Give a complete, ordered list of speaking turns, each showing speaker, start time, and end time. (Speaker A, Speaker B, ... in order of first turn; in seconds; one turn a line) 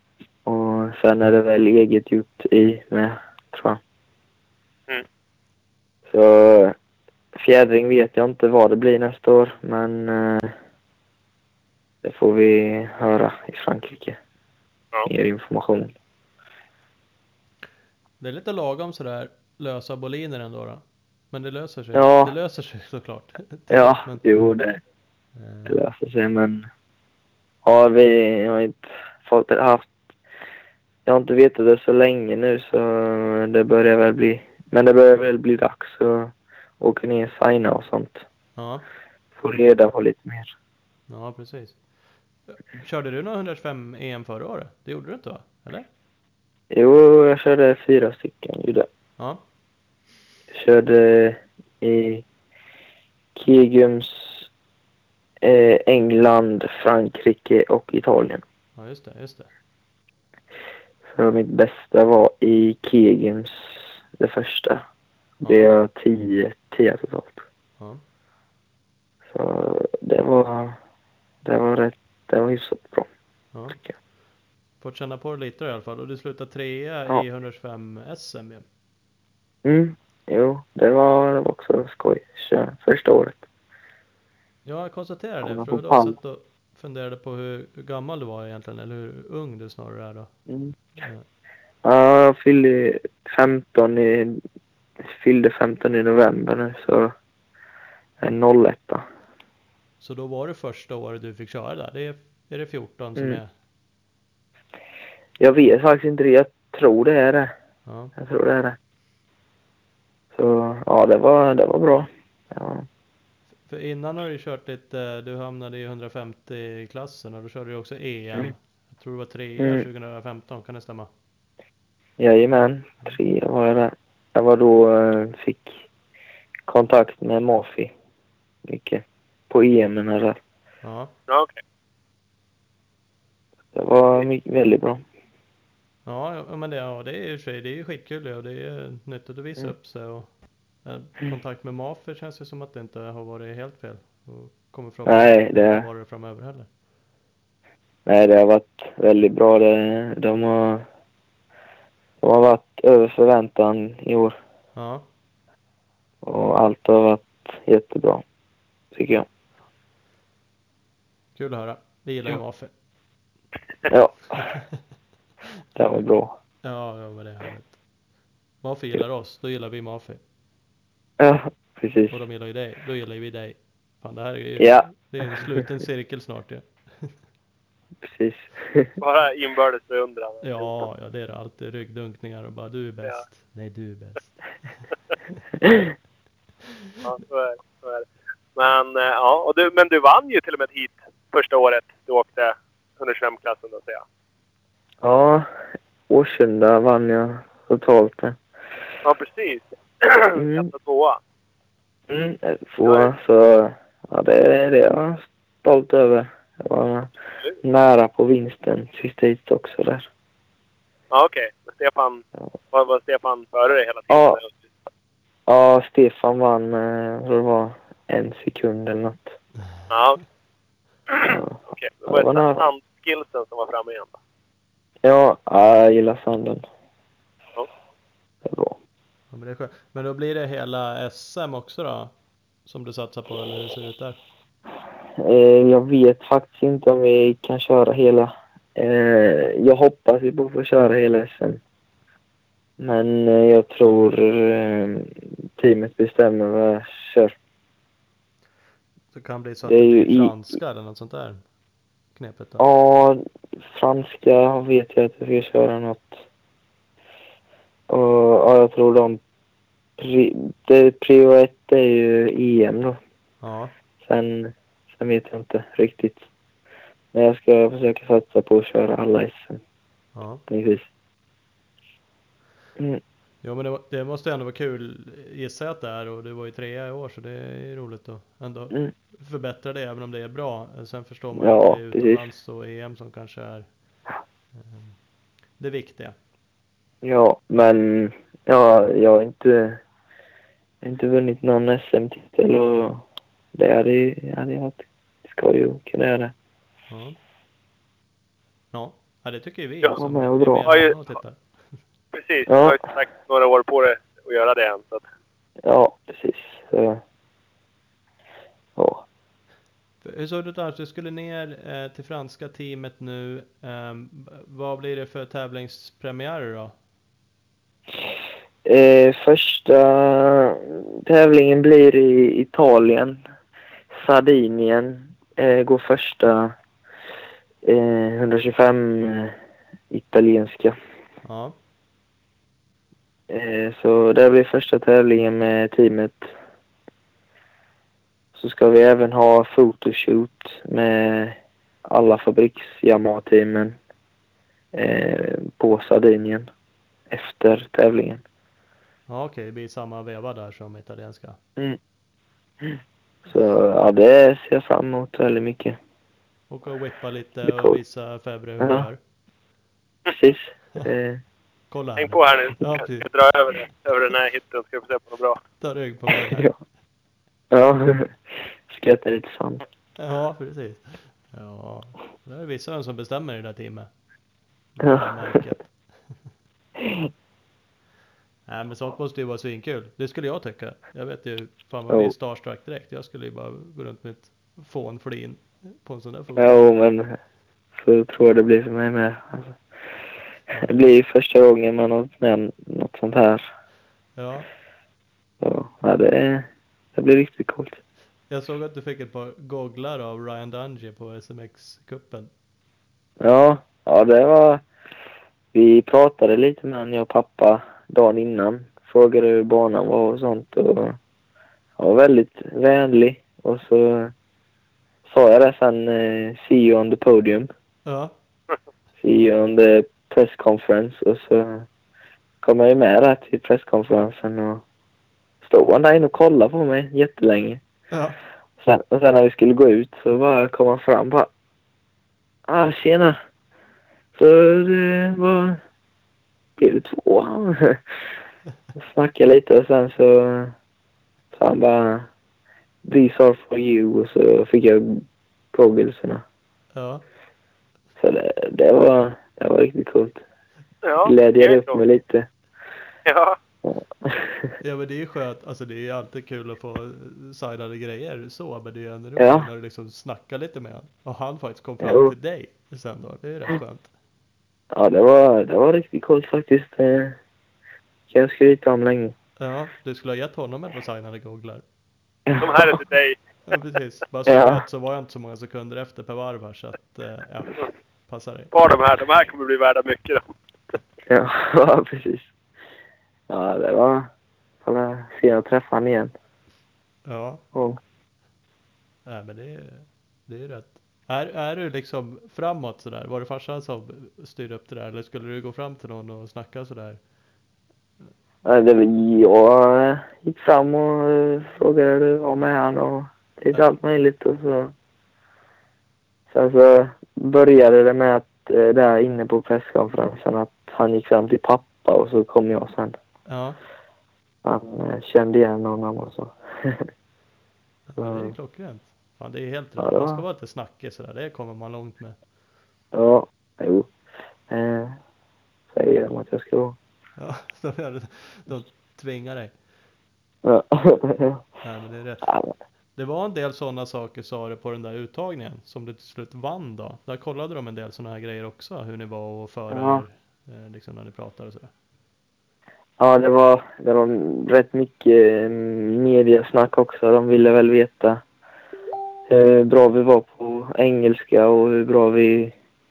Speaker A: 0.5-3.8
Speaker A: 6.1-6.8
Speaker A: 7.3-10.6
Speaker A: 12.0-14.2
Speaker A: 15.1-15.9
Speaker B: 18.2-24.3
Speaker A: 21.9-22.3
Speaker A: 23.7-24.8
Speaker B: 25.4-25.8
Speaker A: 25.6-26.7
Speaker A: 27.6-29.9
Speaker A: 31.1-38.2
Speaker B: 38.6-38.9
Speaker A: 39.4-40.5
Speaker B: 41.1-41.8
Speaker B: 42.5-45.9
Speaker A: 46.7-48.9
Speaker A: 50.5-52.2
Speaker A: 53.4-54.5
Speaker A: 55.4-58.4
Speaker B: 58.8-59.5
Speaker A: 61.1-64.8
Speaker B: 65.4-65.7
Speaker A: 65.5-67.4
Speaker A: 69.3-70.8
Speaker A: 71.4-73.1
Speaker B: 73.5-73.8
Speaker B: 74.8-78.6
Speaker A: 79.6-83.4
Speaker B: 84.6-90.3
Speaker A: 85.4-86.2
Speaker A: 90.5-90.8
Speaker A: 91.8-94.4
Speaker A: 95.0-97.1
Speaker A: 98.2-99.0
Speaker B: 100.0-103.5
Speaker A: 105.4-107.5
Speaker B: 107.9-108.1
Speaker A: 108.2-108.8
Speaker A: 110.3-112.9
Speaker B: 113.7-121.1
Speaker A: 119.6-119.8
Speaker A: 122.2-125.8
Speaker A: 126.7-127.9
Speaker A: 128.7-130.4
Speaker B: 130.8-131.1
Speaker C: 131.3-131.6
Speaker A: 133.7-135.0
Speaker B: 136.1-140.3
Speaker B: 140.8-146.7
Speaker A: 145.1-145.8
Speaker A: 148.1-150.9
Speaker A: 152.2-154.4
Speaker B: 154.8-155.1
Speaker A: 156.2-158.2
Speaker A: 158.9-159.3
Speaker B: 161.4-162.7
Speaker A: 163.9-164.4
Speaker B: 164.4-164.8
Speaker A: 165.8-166.3
Speaker B: 166.6-167.8
Speaker B: 168.6-170.2
Speaker A: 171.2-172.2
Speaker B: 172.1-177.1
Speaker A: 174.6-175.5
Speaker A: 178.0-178.9
Speaker C: 179.0-180.8
Speaker B: 180.4-184.4
Speaker A: 185.6-185.9
Speaker C: 187.0-194.0
Speaker A: 195.0-195.5
Speaker A: 196.1-198.4
Speaker C: 199.0-201.2
Speaker A: 200.4-200.7
Speaker A: 202.1-207.1
Speaker C: 202.8-203.1
Speaker A: 207.6-210.1
Speaker C: 211.1-214.5
Speaker A: 214.1-214.4
Speaker A: 215.5-219.3
Speaker C: 219.9-220.2
Speaker C: 221.1-224.2
Speaker A: 221.3-222.6
Speaker A: 225.0-226.6
Speaker A: 228.4-228.8
Speaker B: 229.3-232.1
Speaker B: 232.6-234.2
Speaker A: 235.2-241.6
Speaker A: 242.8-247.4
Speaker B: 249.1-251.4
Speaker A: 249.7-250.3
Speaker B: 252.1-252.7
Speaker A: 252.6-256.2
Speaker A: 257.9-259.2
Speaker A: 260.0-263.0
Speaker B: 263.4-263.7
Speaker A: 264.0-266.2
Speaker A: 267.1-269.6
Speaker B: 270.1-270.4
Speaker A: 270.5-270.9
Speaker B: 273.4-283.7
Speaker A: 281.4-282.3
Speaker B: 284.6-285.0
Speaker B: 285.6-286.1
Speaker A: 287.0-289.8
Speaker A: 290.8-293.0
Speaker A: 293.6-296.3
Speaker B: 296.9-297.2
Speaker B: 298.7-301.4
Speaker A: 300.0-300.7
Speaker C: 300.7-300.9
Speaker C: 302.1-305.0
Speaker A: 302.5-302.8
Speaker A: 305.6-307.0
Speaker A: 308.8-309.1
Speaker B: 310.0-316.8
Speaker A: 318.6-323.2
Speaker A: 323.9-326.6
Speaker A: 327.6-329.4
Speaker A: 329.9-330.8
Speaker B: 331.2-331.6
Speaker A: 333.3-336.3
Speaker A: 338.4-343.8
Speaker A: 344.7-346.5
Speaker A: 347.1-348.2
Speaker B: 349.1-351.4
Speaker A: 352.6-355.8
Speaker B: 356.5-359.0
Speaker A: 357.4-357.8
Speaker A: 358.6-358.9
Speaker A: 360.1-361.2
Speaker B: 361.7-363.1
Speaker C: 362.0-365.4
Speaker B: 365.6-366.5
Speaker A: 367.5-368.1
Speaker A: 368.7-369.6
Speaker B: 370.0-373.9
Speaker B: 374.8-375.6
Speaker A: 374.8-375.4
Speaker A: 376.8-377.1
Speaker B: 378.5-386.6
Speaker A: 386.4-387.2
Speaker A: 387.8-389.6
Speaker A: 390.6-393.5
Speaker B: 394.2-394.5
Speaker A: 395.4-397.8
Speaker B: 398.3-402.3
Speaker A: 403.2-404.6
Speaker A: 405.5-411.0
Speaker A: 411.8-414.1
Speaker A: 415.1-417.5
Speaker B: 417.9-418.1
Speaker A: 419.0-421.7
Speaker A: 422.4-424.6
Speaker A: 425.4-427.6
Speaker B: 427.9-428.2
Speaker A: 428.6-431.3
Speaker A: 432.5-433.2
Speaker A: 434.1-435.6
Speaker A: 436.6-437.8
Speaker A: 438.8-440.6
Speaker A: 441.4-442.1
Speaker A: 442.9-446.2
Speaker B: 446.8-447.0
Speaker A: 448.0-450.2
Speaker C: 450.8-451.8
Speaker A: 451.1-452.3
Speaker C: 453.1-453.4
Speaker A: 453.6-454.5
Speaker B: 454.6-463.9
Speaker A: 459.2-459.5
Speaker A: 461.8-462.1
Speaker A: 464.7-467.2
Speaker A: 468.1-469.1
Speaker B: 469.4-471.6
Speaker A: 472.3-472.7
Speaker C: 472.4-473.2
Speaker B: 473.5-478.5
Speaker A: 474.3-474.6
Speaker C: 478.5-480.2
Speaker A: 481.1-482.3
Speaker A: 483.3-484.1
Speaker A: 484.6-486.1
Speaker B: 487.1-487.4
Speaker A: 487.5-487.8
Speaker B: 489.1-497.0
Speaker A: 498.4-504.7
Speaker A: 506.3-513.0
Speaker B: 513.3-513.6
Speaker A: 514.4-516.9
Speaker B: 517.9-522.2
Speaker A: 518.0-518.4
Speaker A: 519.8-520.2
Speaker A: 522.9-523.9
Speaker A: 524.5-525.0
Speaker A: 525.7-526.8
Speaker B: 527.2-529.5
Speaker A: 530.4-531.4
Speaker B: 531.6-532.3
Speaker A: 532.2-532.5
Speaker B: 533.0-541.7
Speaker A: 539.7-540.0
Speaker A: 543.0-548.2
Speaker A: 549.3-552.5